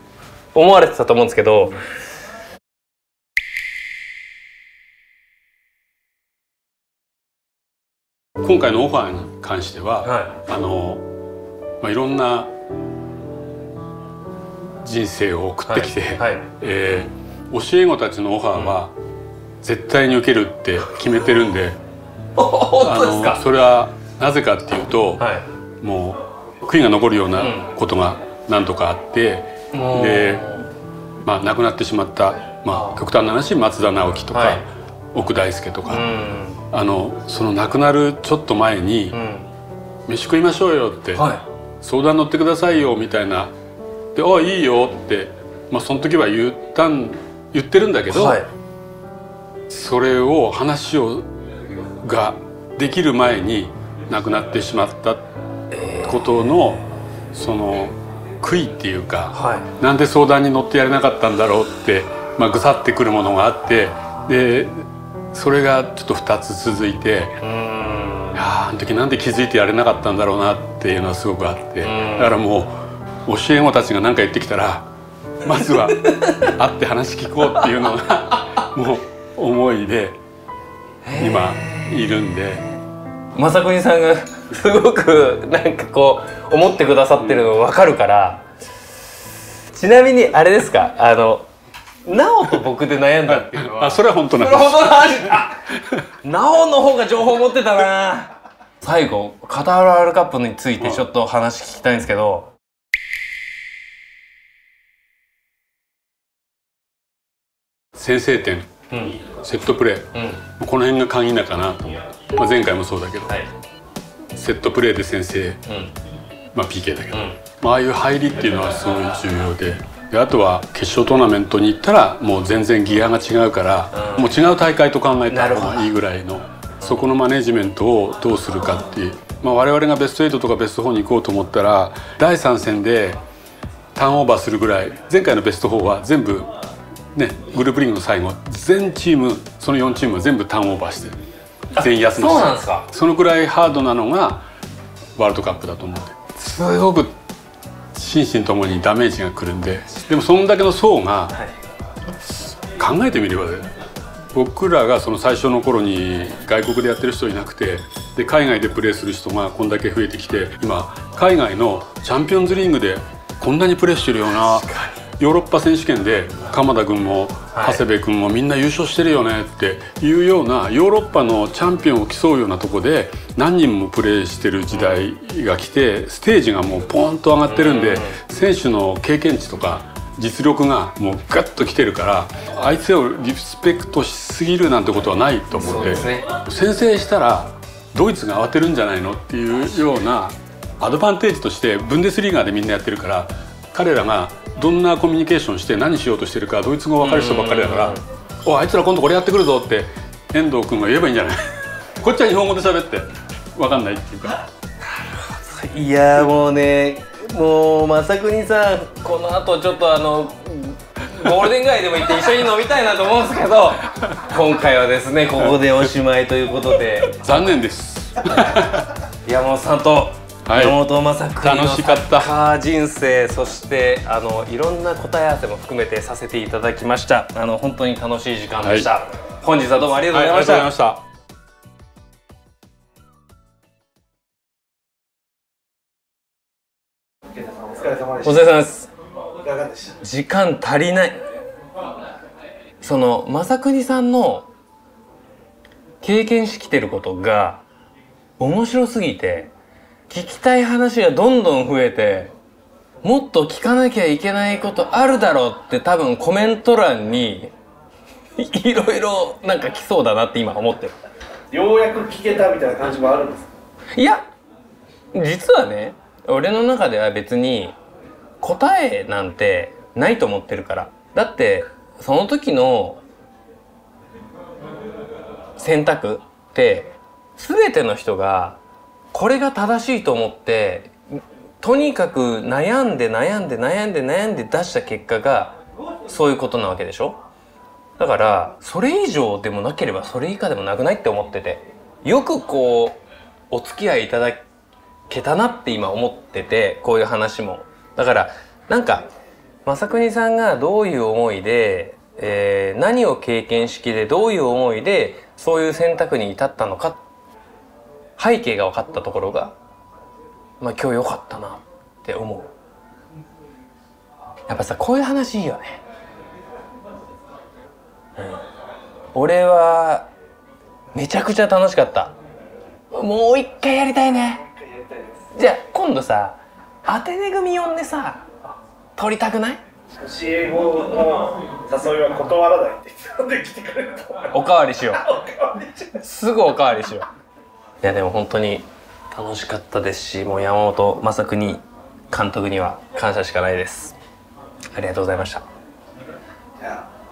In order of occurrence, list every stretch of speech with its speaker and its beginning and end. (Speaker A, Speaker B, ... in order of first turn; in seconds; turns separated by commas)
Speaker A: 0.5-1.8, Speaker B: 8.4-11.0, Speaker A: 10.1-10.4, Speaker B: 11.8-12.5, Speaker B: 14.8-18.9, Speaker A: 15.7-16.5, Speaker B: 19.6-21.8, Speaker A: 22.4-23.4, Speaker B: 22.8-25.3, Speaker A: 25.2-25.5, Speaker B: 25.8-30.5, Speaker A: 27.4-27.7, Speaker A: 29.7-30.7, Speaker B: 31.2-36.1, Speaker A: 32.7-33.0, Speaker A: 34.3-34.6, Speaker A: 35.9-36.6, Speaker B: 36.7-39.2, Speaker A: 39.1-39.5, Speaker B: 40.1-43.5, Speaker A: 41.1-41.4, Speaker B: 44.1-48.4, Speaker A: 48.1-48.5, Speaker B: 49.7-51.3, Speaker B: 52.0-55.3, Speaker A: 55.7-56.4, Speaker B: 56.0-67.4, Speaker A: 59.3-59.7, Speaker A: 67.4-68.4, Speaker B: 68.3-74.9, Speaker A: 71.8-72.4, Speaker B: 75.4-80.2, Speaker A: 75.5-76.5, Speaker A: 77.6-77.9, Speaker A: 81.0-82.7, Speaker B: 81.2-82.7, Speaker A: 83.3-88.5, Speaker B: 87.2-87.5, Speaker A: 89.7-91.5, Speaker A: 92.0-95.6, Speaker B: 93.3-96.0, Speaker A: 96.2-102.5, Speaker B: 100.8-101.0, Speaker B: 108.0-108.7, Speaker A: 108.9-109.2, Speaker B: 109.2-113.3, Speaker A: 110.2-110.4, Speaker B: 114.3-115.6, Speaker A: 115.7-115.9, Speaker B: 116.5-133.2, Speaker A: 117.1-117.4, Speaker A: 123.9-124.3, Speaker A: 125.3-125.9, Speaker B: 133.9-136.5, Speaker B: 137.2-141.2, Speaker B: 141.8-144.5, Speaker A: 141.8-142.9, Speaker B: 145.2-147.2, Speaker B: 147.9-151.4, Speaker B: 152.8-153.7, Speaker B: 154.3-204.4, Speaker A: 164.4-165.0, Speaker A: 167.5-167.8, Speaker A: 174.7-175.1, Speaker A: 177.5-178.2, Speaker A: 185.5-186.3, Speaker A: 197.0-198.0, Speaker A: 205.3-217.5, Speaker B: 217.1-218.9, Speaker A: 219.2-230.7, Speaker B: 220.5-220.8, Speaker B: 221.4-222.3, Speaker B: 228.6-228.9, Speaker B: 230.1-231.0, Speaker C: 237.6-238.2, Speaker A: 238.2-238.9, Speaker C: 239.5-239.8, Speaker A: 239.9-241.2, Speaker A: 242.8-244.5, Speaker A: 246.0-247.6, Speaker A: 248.4-249.5, Speaker A: 250.1-252.3, Speaker A: 253.0-257.5, Speaker A: 258.4-260.9, Speaker C: 261.6-263.5, Speaker A: 264.0-264.2, Speaker A: 265.1-267.8, Speaker A: 268.4-273.0, Speaker A: 275.6-278.6, Speaker A: 279.1-281.0, Speaker A: 281.6-287.2, Speaker A: 288.0-293.0, Speaker A: 293.5-294.5, Speaker A: 295.1-299.1, Speaker A: 299.6-307.0, Speaker A: 308.2-309.6, Speaker A: 310.6-312.5, Speaker A: 314.5-315.8, Speaker A: 319.1-320.1, Speaker A: 320.9-322.1, Speaker A: 322.9-324.6, Speaker A: 325.3-328.3, Speaker A: 329.0-329.6, Speaker C: 330.0-334.1, Speaker A: 334.2-337.1, Speaker A: 337.8-344.0, Speaker A: 344.7-345.4